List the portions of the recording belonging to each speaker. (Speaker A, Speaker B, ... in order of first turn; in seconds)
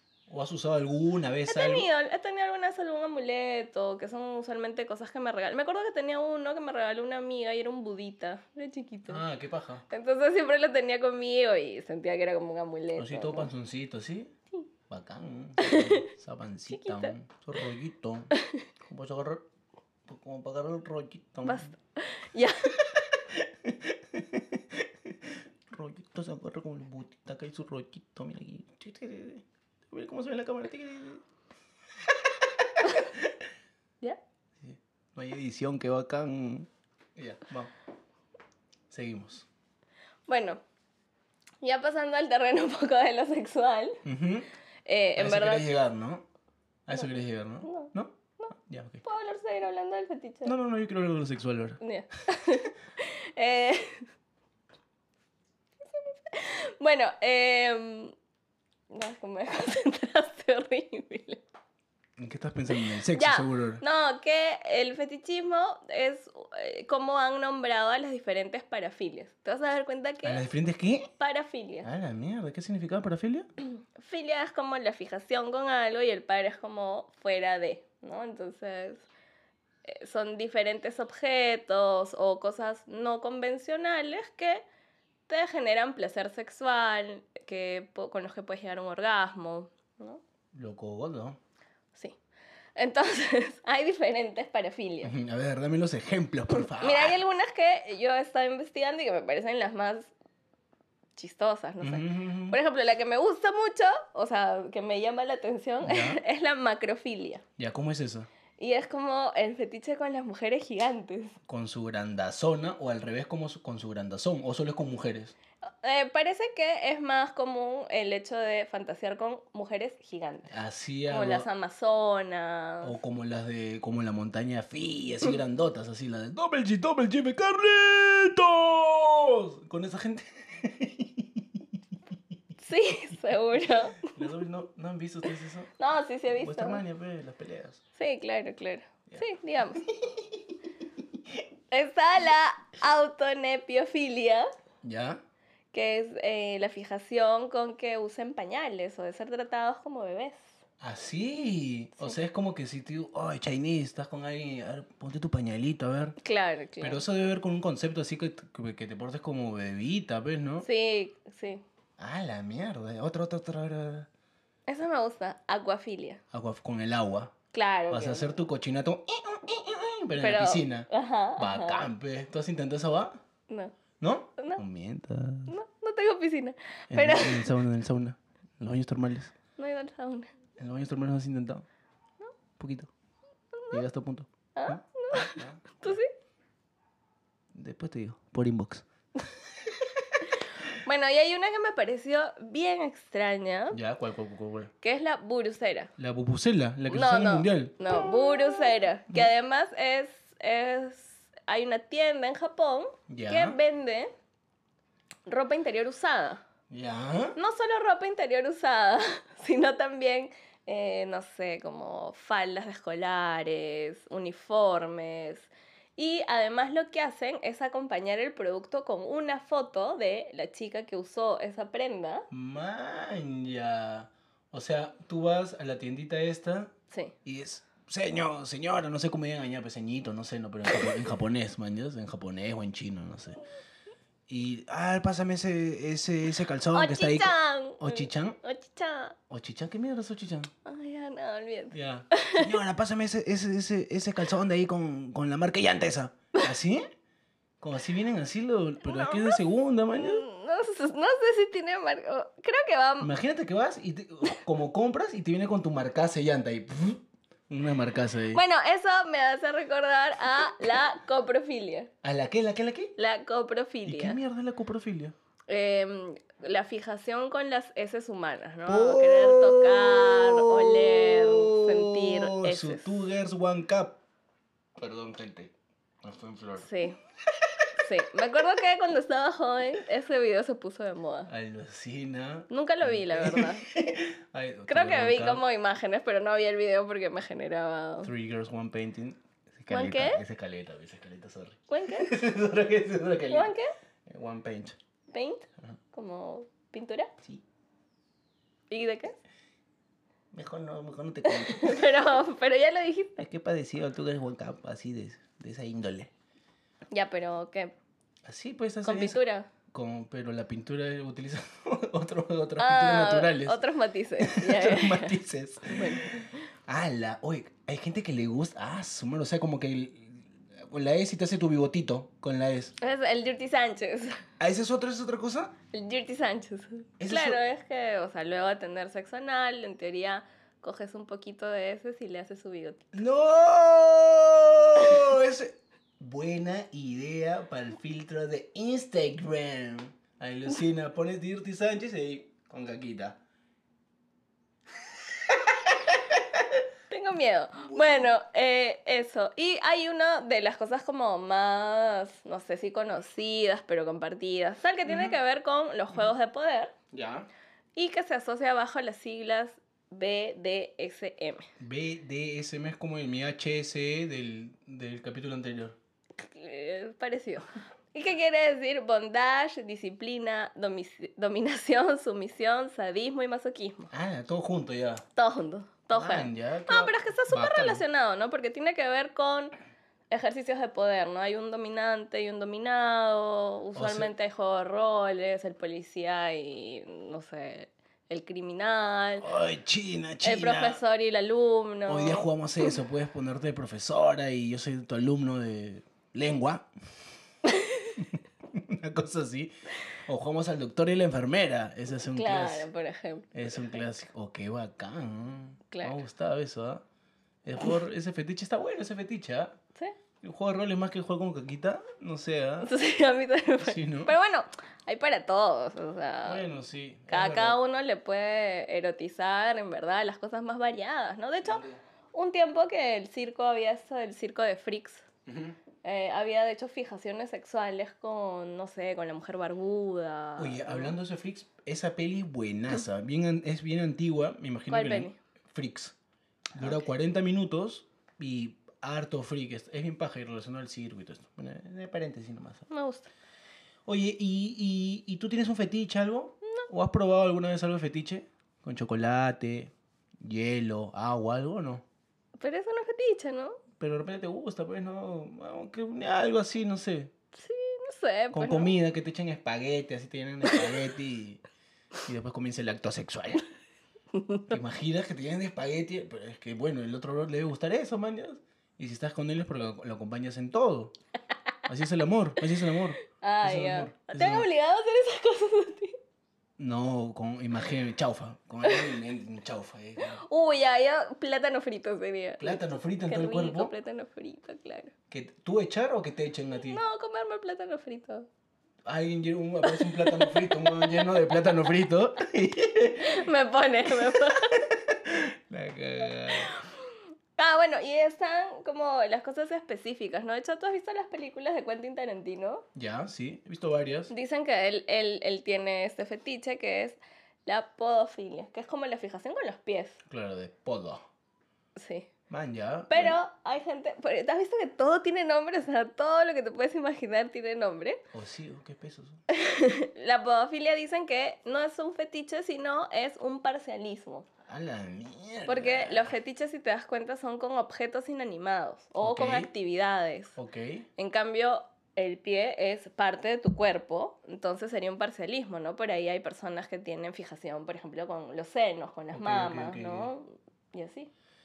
Speaker A: 0.3-1.9, 9.1-9.8, 12.9-14.3, 14.9-18.3, 18.8-19.4, 20.1-21.7, 22.8-31.2, 33.0-33.3, 34.6-37.7, 38.9-39.5, 44.0-44.5, 45.2-46.2, 46.9-48.1, 48.7-49.0, 50.4-51.8, 62.2-63.8, 70.2-71.1, 71.8-73.5, 90.5-91.4, 95.0-97.2, 101.8-102.6, 105.8-106.2, 107.6-108.3, 111.5-115.3, 120.5-121.5, 122.8-131.3, 134.1-135.7, 136.4-137.8, 144.8-145.2, 150.8-156.2, 156.8-160.7, 162.0-164.1, 166.3-167.3, 167.9-170.9, 171.4-173.2, 174.0-175.5, 176.9-179.3, 180.6-181.6, 182.6-182.9, 183.7-186.0, 187.5-188.8, 193.7-194.7, 196.0-197.8, 203.1-203.6, 206.7-207.4, 222.3-226.7, 227.2-233.4, 234.3-238.4, 239.3-240.5, 241.7-246.9, 247.6-250.2, 253.0-258.4, 262.0-262.9, 263.9-265.1, 268.7-274.0, 274.8-275.5, 276.0-276.7, 281.3-285.4, 288.0-293.5, 294.1-294.8, 300.3-301.9, 303.2-306.1, 308.2-309.2, 309.7-313.6, 314.2-322.7, 324.4-325.5, 327.0-327.4, 332.9-343.2, 345.2-346.4, 347.6-348.1, 354.8-355.2, 356.9-357.3, 361.6-365.8, 373.9-375.0, 375.9-377.8, 383.7-384.1, 389.2-390.8, 391.9-396.7, 397.9-399.5, 400.1-402.7, 403.3-406.8, 407.4-409.6, 410.2-412.7, 413.6-414.1, 416.2-417.6, 421.4-421.8, 425.3-425.6, 430.4-435.9, 436.5-442.7, 443.9-451.8, 453.8-457.1, 458.3-461.4, 462.1-463.4, 464.5-470.9, 471.7-474.5, 476.6-480.2, 482.4-483.7, 485.1-486.8, 488.9-493.2, 493.9-496.5, 502.7-504.1, 510.1-511.0, 512.3-513.2, 518.1-519.2, 524.5-526.1, 529.0-529.5, 530.4-530.9, 539.1-540.1
Speaker B: 1.5-9.2, 9.9-13.5, 15.6-16.1, 16.7-17.1, 21.4-22.7, 40.3-40.6, 41.6-44.0, 44.9-45.6, 46.9-48.5, 49.0-50.5, 51.8-54.1, 55.9-58.1, 58.9-61.4, 62.7-70.5, 71.2-71.9, 73.6-79.1, 79.8-84.6, 85.3-90.2, 92.8-95.1, 96.6-100.1, 101.2-107.4, 108.6-111.4, 115.8-120.5, 121.1-123.0, 132.6-134.1, 135.8-136.8, 137.9-139.8, 141.7-144.5, 145.7-150.4, 156.2-157.0, 160.6-161.6, 164.7-166.2, 167.5-168.4, 170.2-171.9, 173.5-173.8, 174.4-174.6, 175.5-177.5, 179.6-180.3, 183.5-183.8, 184.6-186.1, 190.7-193.8, 194.8-195.9, 196.9-204.1, 205.3-206.4, 207.3-222.3, 236.7-239.2, 240.6-242.5, 248.8-249.4, 249.9-253.1, 258.3-261.9, 263.0-264.2, 265.5-273.1, 276.6-276.9, 277.8-281.3, 282.5-283.7, 284.7-288.1, 289.7-290.2, 291.7-292.1, 293.3-293.7, 295.1-297.1, 298.7-299.1, 301.2-303.2, 306.9-307.7, 308.8-309.5, 312.6-316.3, 322.8-324.2, 325.7-332.8, 346.9-356.7, 357.7-361.4, 366.2-373.9, 375.1-379.5, 380.1-389.2, 390.2-392.7, 397.4-397.9, 402.0-403.9, 405.7-406.0, 412.6-416.4, 417.1-425.1, 425.8-431.0, 434.7-435.2, 442.7-443.1, 452.4-453.6, 457.3-458.7, 460.5-460.7, 464.1-464.4, 473.1-475.9, 478.6-479.0, 480.0-484.9, 486.6-488.2, 489.6-491.5, 493.0-494.6, 496.3-502.6, 504.1-510.0, 511.8-512.1, 512.9-518.0, 519.3-524.3, 525.5-530.4, 531.0-541.1